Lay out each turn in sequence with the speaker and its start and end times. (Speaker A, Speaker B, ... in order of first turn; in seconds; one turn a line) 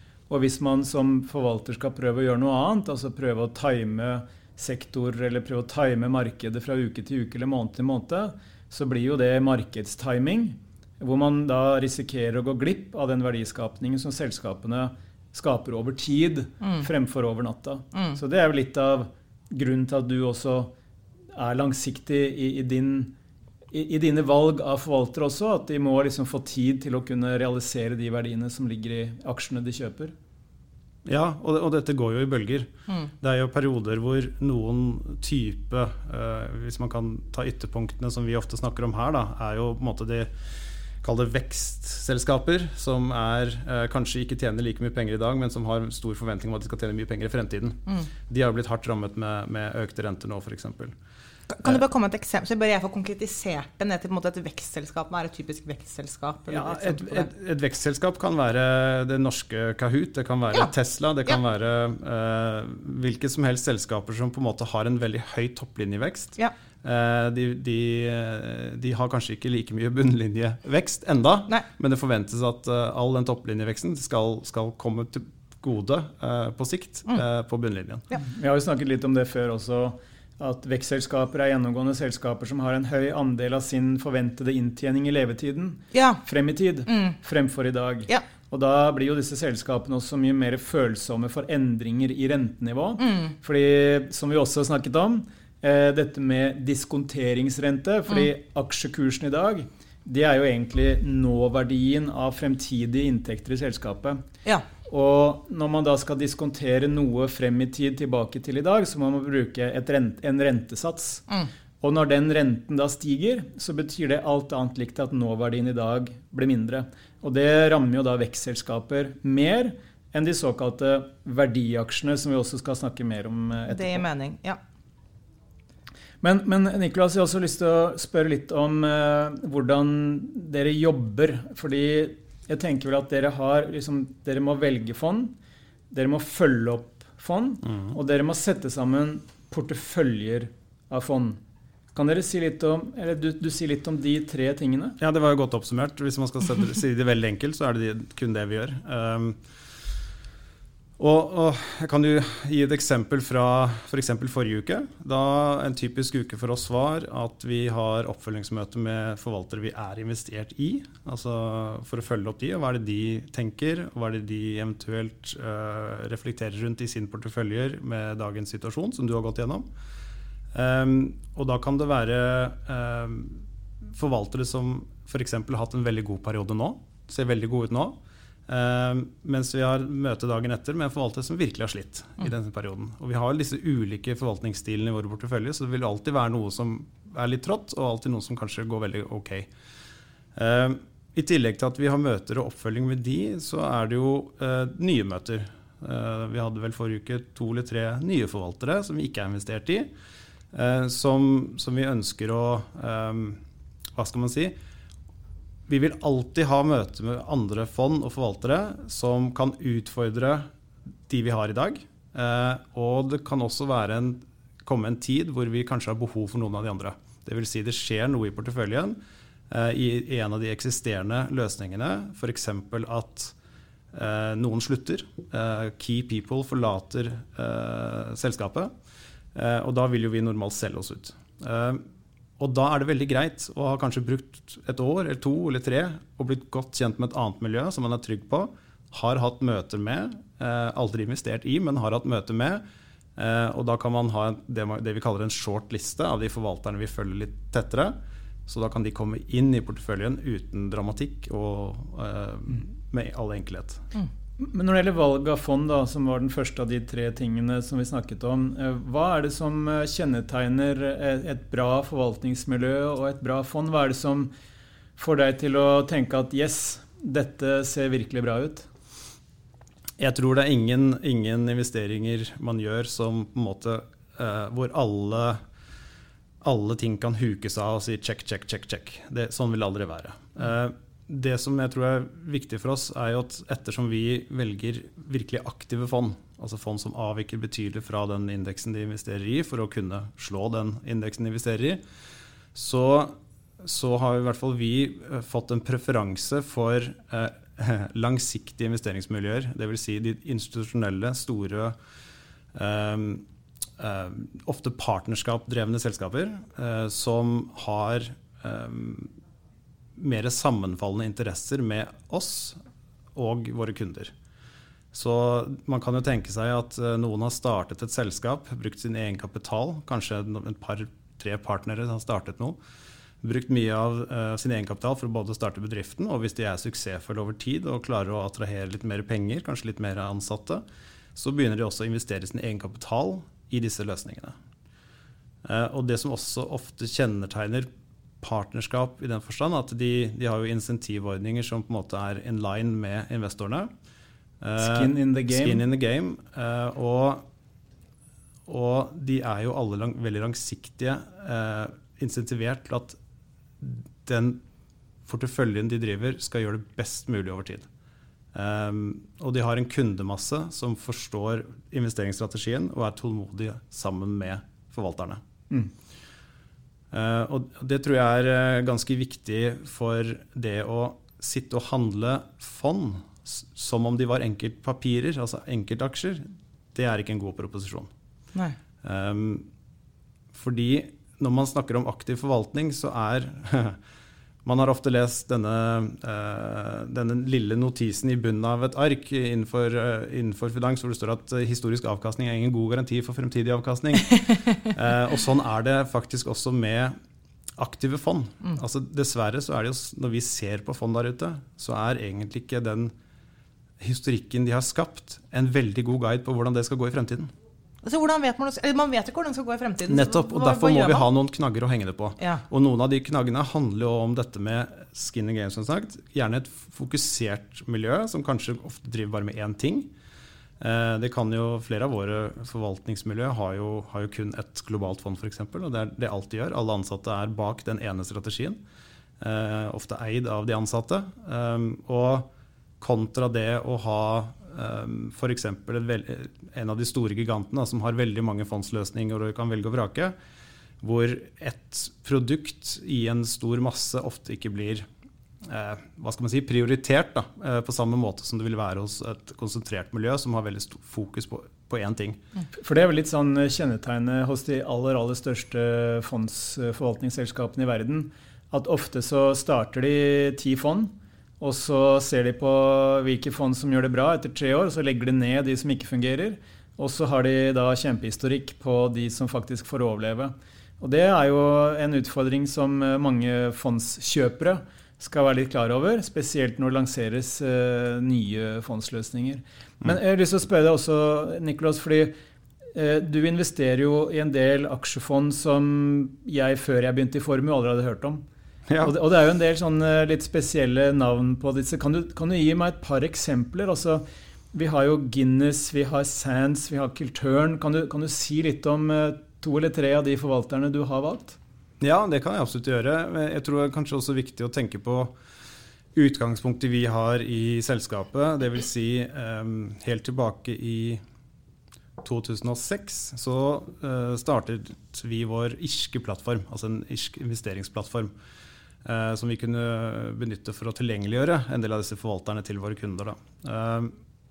Speaker A: 0.3-20.7
Speaker B: 16.6-16.9
Speaker A: 21.3-23.1
Speaker A: 23.7-30.1
Speaker C: 31.1-40.3
Speaker C: 41.0-50.9
Speaker B: 51.5-57.3
Speaker C: 56.5-78.0
Speaker A: 78.2-104.2
Speaker B: 85.9-86.2
Speaker B: 86.9-87.2
Speaker B: 93.0-93.3
Speaker A: 104.8-111.2
Speaker A: 111.8-124.0
Speaker B: 123.7-124.6
Speaker A: 126.2-135.3
Speaker A: 135.9-141.4
Speaker A: 141.9-145.0
Speaker C: 145.0-149.4
Speaker C: 151.0-169.7
Speaker C: 170.5-177.9
Speaker C: 178.5-189.5
Speaker C: 190.3-199.9
Speaker C: 200.5-203.4
Speaker C: 203.9-204.5
Speaker C: 205.7-210.5
Speaker C: 211.1-219.0
Speaker C: 219.5-223.3
Speaker C: 223.9-228.7
Speaker C: 229.3-231.8
Speaker C: 232.4-242.6
Speaker C: 243.2-247.9
Speaker C: 248.4-253.8
Speaker A: 254.4-264.3
Speaker A: 265.0-268.7
Speaker C: 270.0-275.4
Speaker C: 276.4-291.8
Speaker C: 292.5-301.8
Speaker C: 302.5-303.2
Speaker C: 303.8-309.1
Speaker C: 309.9-312.6
Speaker C: 313.1-314.1
Speaker C: 314.9-322.6
Speaker C: 323.2-330.6
Speaker C: 331.1-334.4
Speaker C: 335.4-337.7
Speaker C: 338.2-343.7
Speaker C: 344.4-347.2
Speaker A: 344.6-345.6
Speaker C: 348.5-353.0
Speaker C: 353.6-354.4
Speaker C: 355.1-357.7
Speaker C: 358.3-365.2
Speaker C: 366.9-377.9
Speaker C: 378.8-379.4
Speaker C: 380.3-383.8
Speaker C: 384.4-396.9
Speaker C: 397.6-402.9
Speaker C: 403.8-407.3
Speaker B: 407.8-411.1
Speaker C: 409.9-419.9
Speaker C: 420.6-428.6
Speaker C: 429.2-432.3
Speaker C: 432.8-440.1
Speaker C: 440.8-444.9
Speaker C: 445.4-452.2
Speaker A: 452.6-482.1
Speaker A: 482.7-488.2
Speaker C: 488.7-488.9
Speaker A: 488.8-501.4
Speaker C: 501.8-505.1
Speaker C: 505.9-511.0
Speaker C: 512.0-518.1
Speaker C: 518.8-523.9